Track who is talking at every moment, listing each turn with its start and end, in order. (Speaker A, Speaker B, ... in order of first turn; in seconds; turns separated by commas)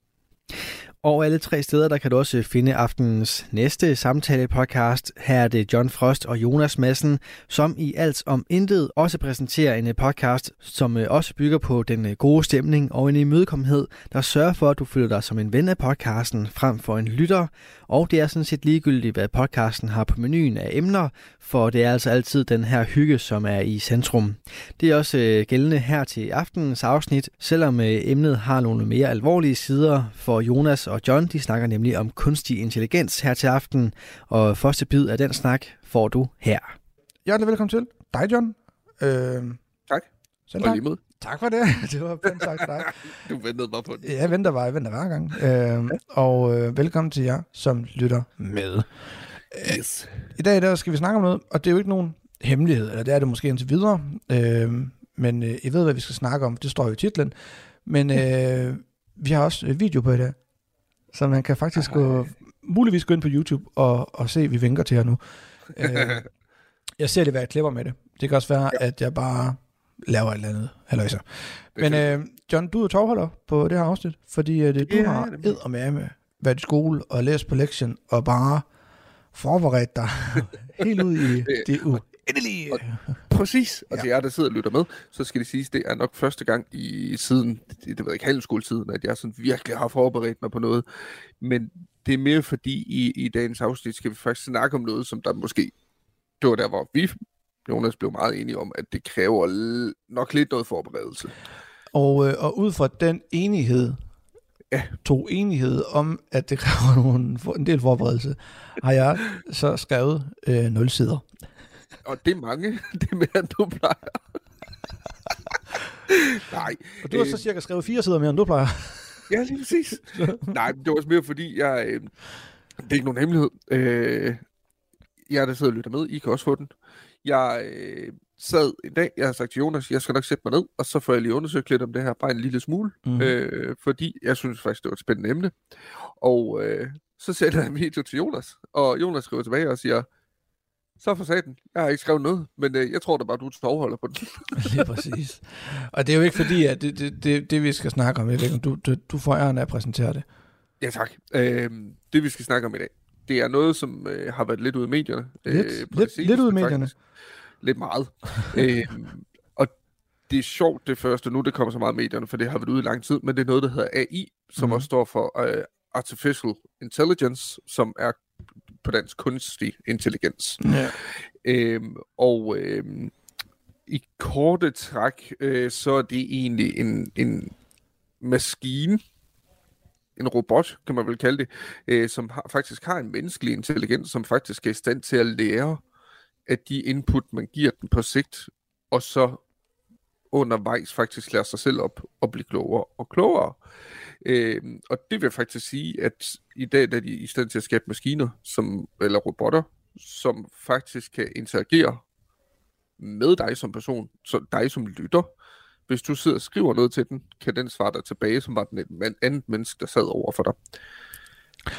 Speaker A: 1.0-36.7, Speaker B: 37.2-39.6, Speaker B: 40.5-42.9, Speaker C: 40.6-41.0, Speaker C: 42.4-44.3, Speaker B: 44.0-48.9, Speaker B: 49.5-49.8, Speaker C: 49.6-50.2, Speaker B: 50.3-60.4, Speaker B: 61.1-66.2, Speaker C: 65.8-66.2, Speaker B: 67.0-78.7, Speaker C: 71.8-72.1, Speaker C: 74.8-75.6, Speaker B: 79.3-83.2, Speaker C: 80.8-81.7, Speaker C: 82.7-90.8, Speaker C: 91.4-95.7, Speaker C: 96.4-101.3, Speaker B: 101.9-104.0, Speaker B: 105.0-111.2, Speaker C: 112.0-114.2, Speaker C: 116.5-117.4, Speaker B: 117.0-119.2, Speaker C: 119.3-122.1, Speaker B: 120.1-120.5, Speaker C: 122.8-124.4, Speaker C: 125.3-126.7, Speaker C: 127.2-135.5, Speaker B: 133.0-133.3, Speaker C: 136.2-140.1, Speaker C: 141.0-144.9, Speaker B: 144.6-150.2, Speaker C: 150.8-156.9, Speaker B: 155.4-156.9, Speaker C: 157.6-159.7, Speaker C: 160.3-168.2, Speaker B: 164.6-164.8, Speaker C: 168.8-170.9, Speaker B: 170.6-170.9, Speaker C: 171.4-173.1, Speaker C: 173.9-177.5, Speaker C: 178.2-179.0, Speaker C: 180.2-185.8, Speaker C: 186.5-189.4, Speaker C: 190.3-193.6, Speaker C: 194.2-202.0, Speaker C: 203.0-205.3, Speaker C: 205.9-210.6